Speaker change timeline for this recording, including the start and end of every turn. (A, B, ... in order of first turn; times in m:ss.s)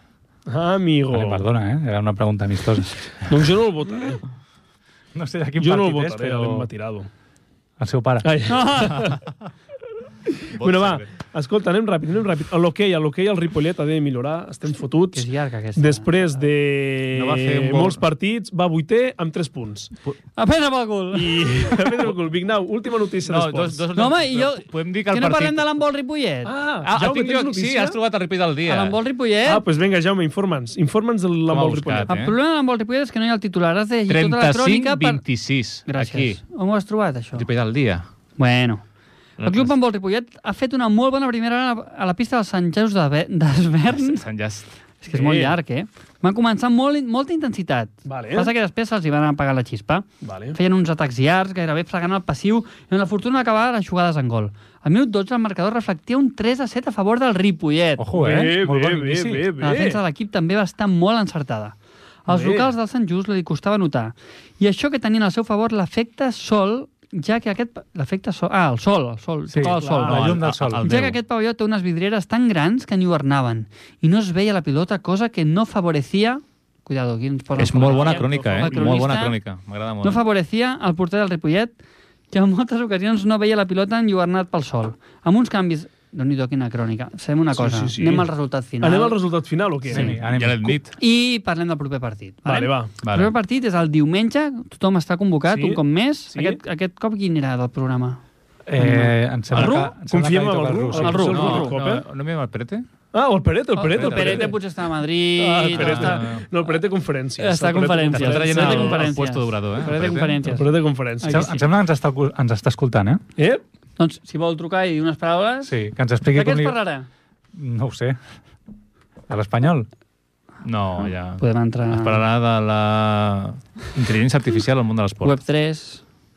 0:00.5-0:01.4 A
0:01.1-0:02.9 B
0:03.3-0:04.2 A
0:05.1-0:06.7 B
0:05.6-0:07.1 A
0:07.8-0:08.3 B
0:08.2-0:09.2 A
0:08.5-0:09.1 C
0:09.0-0:09.3 D
0:10.3-0:19.9 A
0:10.6-0:11.1 D
0:15.1-0:16.1 C
0:17.1-0:18.0 D
0:20.4-0:22.0 C
0:21.1-0:23.8 A
0:23.2-0:25.7 D
0:24.0-0:26.5 C
0:26.4-0:28.0 A
0:26.8-0:29.0 D
0:28.7-0:29.6 C
0:29.4-0:32.1 A
0:31.5-0:32.4 D
0:32.1-0:35.2 C
0:34.1-0:36.4 D
0:35.9-0:37.5 C
0:37.4-0:38.1 D
0:38.4-0:38.8 C
0:39.4-0:39.7 D
0:39.4-0:44.2 C
0:43.9-0:44.7 D
0:45.0-0:58.1 C
0:45.1-0:45.6 A
0:48.0-0:48.5 A
0:50.2-0:50.6 A
0:58.0-0:59.5 B
0:58.1-1:00.0 A
0:59.6-1:01.8 C
1:02.3-1:10.2 C
1:02.3-1:02.7 A
1:09.5-1:10.9 B
1:09.6-1:10.4 A
1:10.1-1:11.2 D
1:10.8-1:19.4 C
1:17.6-1:20.2 D
1:17.8-1:19.0 A
1:20.0-1:21.8 C
1:22.3-1:29.2 C
1:27.5-1:28.3 A
1:28.8-1:30.1 A
1:29.9-1:30.8 B
1:30.0-1:30.9 D
1:31.0-1:38.2 C
1:32.4-1:32.9 A
1:33.0-1:33.3 D
1:35.5-1:36.6 A
1:38.7-1:41.4 B
1:38.8-1:39.9 C
1:39.5-1:42.0 A
1:40.9-1:41.8 C
1:41.2-1:42.9 D
1:43.1-1:44.6 A
1:43.8-1:46.3 C
1:43.9-1:44.6 D
1:45.4-1:49.1 A
1:45.7-1:46.4 D
1:47.4-1:51.6 C
1:48.1-1:50.5 D
1:50.4-1:51.6 A
1:51.3-1:53.2 B
1:53.4-1:53.6 A
1:54.0-1:55.7 C
1:55.6-1:56.8 B
1:56.3-1:57.1 C
1:57.5-1:58.2 B
1:59.3-1:59.9 B
2:00.6-2:05.4 D
2:01.4-2:02.2 C
2:05.2-2:06.0 C